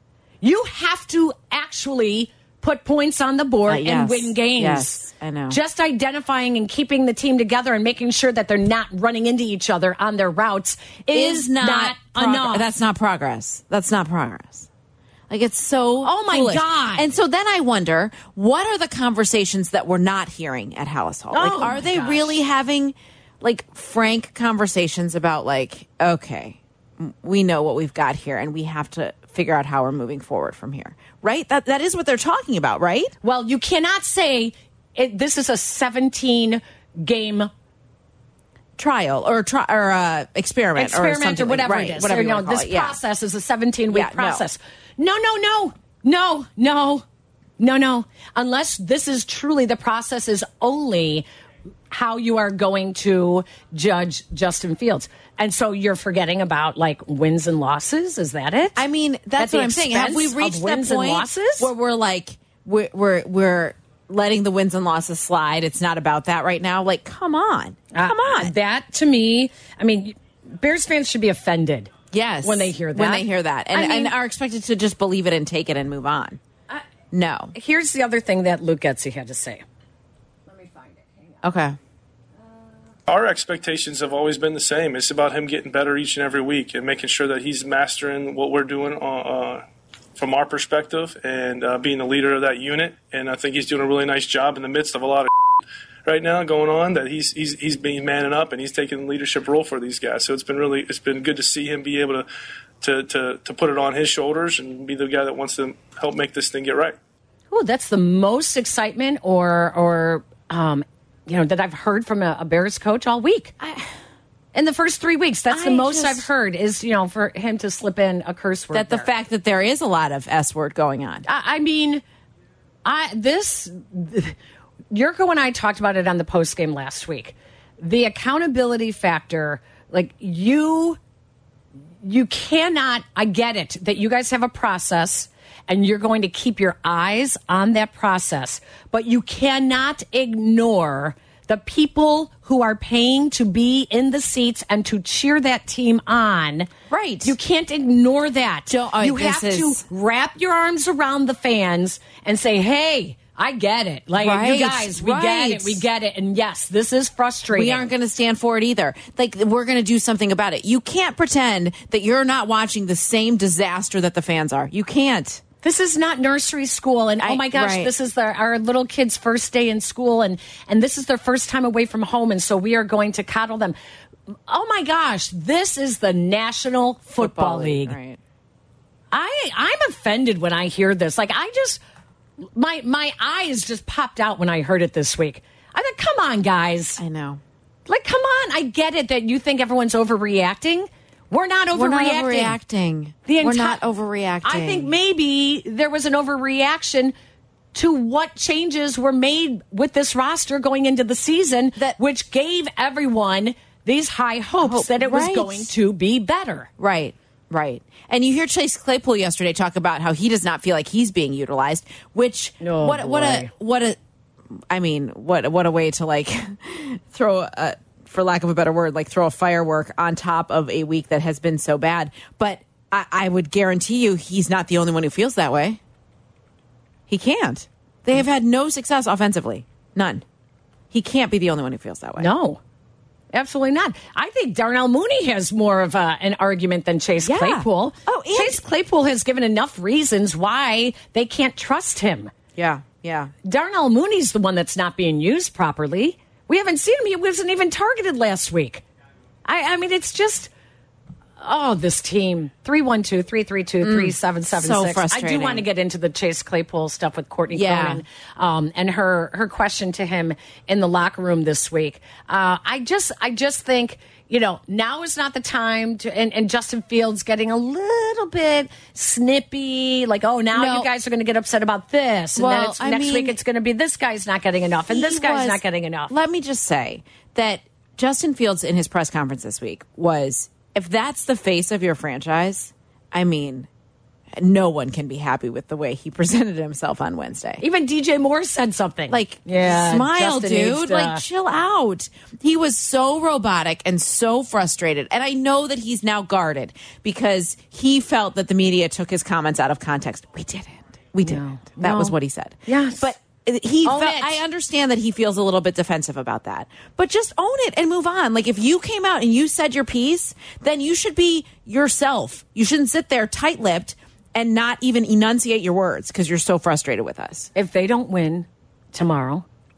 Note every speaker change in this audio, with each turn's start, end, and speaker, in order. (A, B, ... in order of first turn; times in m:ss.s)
0:00.4-0:12.7 A
0:03.6-0:05.6 B
0:11.1-0:14.7 B
0:15.3-0:33.1 B
0:16.0-0:17.1 A
0:21.3-0:22.4 A
0:33.2-0:37.5 A
0:38.8-0:43.0 B
0:40.7-0:47.0 A
0:43.9-0:44.4 B
0:47.6-0:51.2 A
0:51.9-0:58.8 A
0:58.8-1:08.5 B
0:59.4-1:01.7 A
1:07.9-1:11.9 A
1:12.1-1:16.4 B
1:12.4-1:14.1 A
1:17.1-1:17.5 B
1:17.5-1:19.6 A
1:20.5-1:21.4 A
1:21.4-1:21.8 B
1:23.1-1:35.3 C
1:36.0-1:42.3 C
1:42.8-1:47.0 C
1:47.5-1:53.5 A
1:53.6-1:53.9 B
1:54.5-1:59.1 A
1:55.5-1:56.3 B
1:58.7-2:01.2 B
2:01.2-2:02.0 A
2:02.8-2:04.4 A
2:04.9-2:11.0 A
2:12.0-2:26.7 A
2:26.9-2:27.3 B
2:27.2-2:37.8 A
2:28.7-2:29.8 B
2:34.1-2:35.8 B
2:37.5-2:45.4 B
2:45.6-2:53.8 A
2:47.2-2:47.9 B
2:54.5-2:58.0 A
2:57.2-2:58.2 B
2:59.1-3:01.8 A
3:02.5-3:07.0 A
3:07.0-3:07.4 B
3:07.9-3:12.6 A
3:11.7-3:14.9 B
3:13.2-3:13.8 A
3:14.4-3:17.1 A
3:17.7-3:26.7 A
3:24.6-3:25.7 B
3:26.8-3:34.0 B
3:32.6-3:33.5 A
3:34.7-3:45.8 B
3:47.1-3:50.2 B
3:50.9-3:52.3 B
3:52.2-3:52.6 A
3:53.3-4:02.3 A
3:57.2-3:58.6 B
4:02.5-4:03.3 B
4:03.4-4:08.8 A
4:09.4-4:10.5 A
4:11.4-4:36.1 A
4:13.8-4:15.7 B
4:17.5-4:18.0 B
4:30.5-4:30.9 B
4:32.4-4:33.4 B
4:34.9-4:43.7 B
4:44.3-4:47.6 B
4:47.6-4:51.2 A
4:49.1-5:17.5 B
5:01.2-5:02.1 A
5:02.7-5:03.1 A
5:03.8-5:04.4 A
5:17.5-5:19.4 A